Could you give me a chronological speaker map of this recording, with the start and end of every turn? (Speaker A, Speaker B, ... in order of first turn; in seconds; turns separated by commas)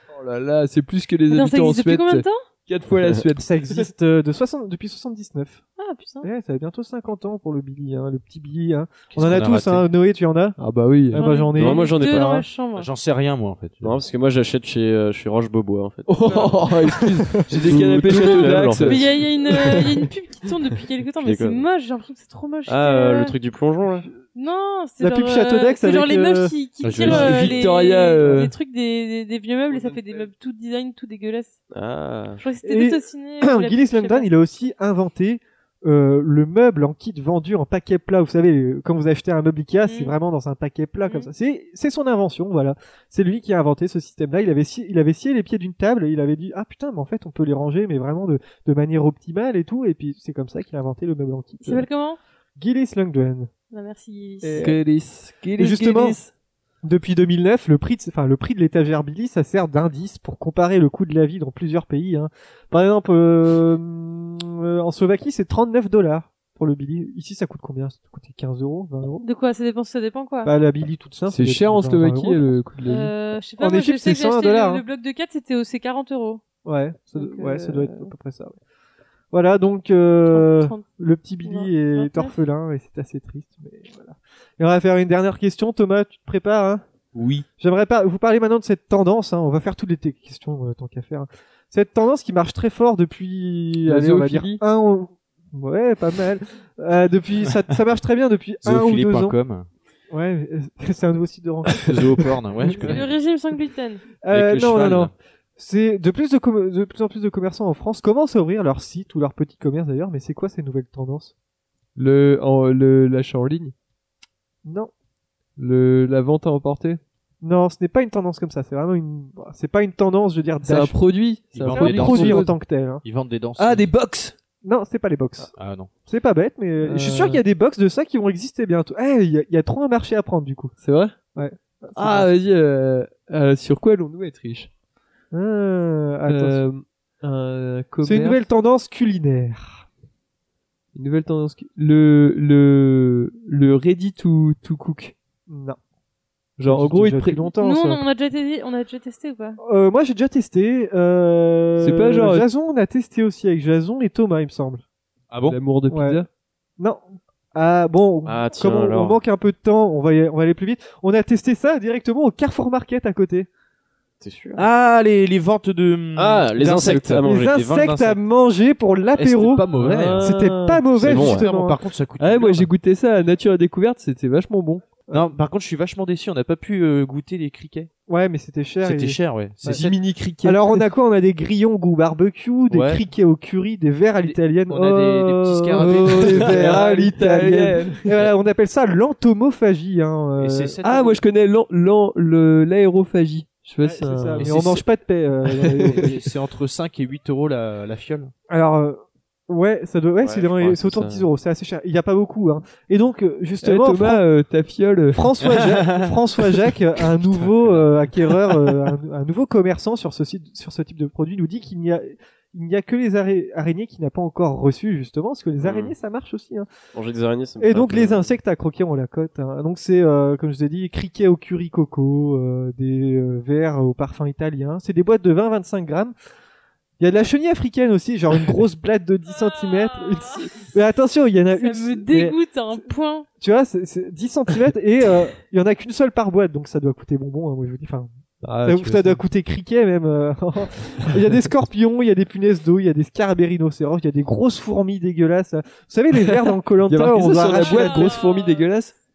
Speaker A: 0.1-3.9, Speaker B: 1.3-2.4, Speaker C: 3.3-5.6, Speaker B: 5.8-6.3, Speaker C: 6.2-10.6, Speaker D: 9.1-9.9, Speaker A: 10.6-11.3, Speaker C: 11.1-12.4, Speaker B: 11.1-12.9, Speaker E: 11.5-12.4, Speaker D: 12.7-14.0, Speaker E: 13.8-16.6, Speaker A: 16.1-19.8, Speaker D: 17.5-18.8, Speaker E: 17.6-19.1, Speaker B: 18.8-23.3, Speaker E: 21.2-21.6, Speaker E: 22.7-24.1, Speaker B: 24.3-31.6, Speaker C: 25.0-26.5, Speaker D: 26.8-27.7, Speaker A: 27.0-28.5, Speaker E: 31.7-32.4, Speaker B: 32.4-34.3, Speaker C: 32.6-51.9, Speaker B: 39.8-40.1, Speaker B: 51.6-52.2, Speaker C: 52.6-53.5, Speaker B: 53.7-54.7, Speaker C: 54.4-54.8, Speaker A: 54.6-56.3, Speaker C: 55.6-56.2, Speaker C: 56.8-69.2, Speaker B: 69.2-70.5, Speaker C: 70.4-72.6, Speaker A: 71.3-73.1, Speaker B: 72.8-76.4, Speaker C: 73.6-74.8, Speaker C: 76.6-78.5, Speaker B: 77.2-78.1, Speaker C: 79.3-86.8, Speaker B: 80.3-80.8, Speaker B: 81.4-82.3, Speaker D: 87.1-87.5, Speaker C: 87.6-99.4, Speaker A: 93.8-94.6, Speaker D: 98.6-99.7, Speaker C: 100.1-102.6, Speaker D: 101.8-103.2, Speaker B: 102.7-104.0, Speaker C: 104.2-111.3, Speaker D: 104.3-105.1, Speaker A: 112.0-113.7, Speaker C: 114.6-114.9, Speaker A: 115.6-117.0, Speaker C: 117.4-121.0, Speaker A: 120.6-122.5, Speaker D: 121.5-122.5, Speaker C: 121.7-123.0, Speaker D: 123.0-123.9, Speaker A: 123.6-124.3, Speaker C: 124.6-125.5, Speaker D: 125.6-125.9, Speaker C: 126.1-130.7, Speaker A: 126.8-127.4, Speaker A: 130.8-131.1, Speaker C: 131.3-132.3, Speaker A: 132.0-134.7, Speaker C: 135.3-136.6, Speaker A: 136.3-138.4, Speaker C: 138.0-139.8, Speaker A: 140.9-145.1, Speaker C: 145.5-145.8, Speaker A: 146.6-147.5, Speaker C: 146.7-148.0, Speaker B: 147.6-149.6, Speaker C: 149.6-154.8, Speaker A: 151.8-152.5, Speaker D: 155.3-155.6, Speaker A: 155.5-156.3, Speaker C: 155.9-156.2, Speaker C: 156.8-163.5, Speaker E: 158.2-159.2, Speaker E: 164.2-164.6, Speaker D: 164.6-168.2, Speaker E: 166.2-167.5, Speaker C: 167.2-171.8, Speaker D: 169.2-170.3, Speaker A: 169.8-170.8, Speaker D: 170.9-172.7, Speaker E: 171.0-171.4, Speaker A: 172.2-174.8, Speaker D: 175.1-177.9, Speaker C: 178.1-179.8, Speaker D: 178.8-180.0, Speaker A: 179.7-180.8, Speaker C: 180.4-190.7, Speaker D: 182.7-183.0, Speaker D: 184.2-187.1, Speaker A: 185.7-188.1, Speaker D: 190.4-191.2, Speaker A: 190.8-194.6, Speaker C: 193.8-196.2, Speaker D: 194.4-194.8, Speaker A: 195.5-196.2, Speaker D: 195.9-198.3, Speaker C: 198.5-204.2, Speaker E: 200.2-201.3, Speaker A: 203.6-205.3, Speaker C: 205.1-216.7, Speaker D: 205.5-206.1, Speaker D: 207.4-207.7, Speaker E: 215.6-215.9, Speaker E: 216.9-218.3, Speaker C: 217.6-226.1, Speaker C: 227.0-232.4, Speaker B: 229.6-230.5, Speaker B: 231.6-233.2, Speaker C: 233.4-238.1, Speaker A: 238.4-239.2, Speaker C: 238.6-248.2, Speaker A: 246.3-248.9, Speaker B: 247.6-248.6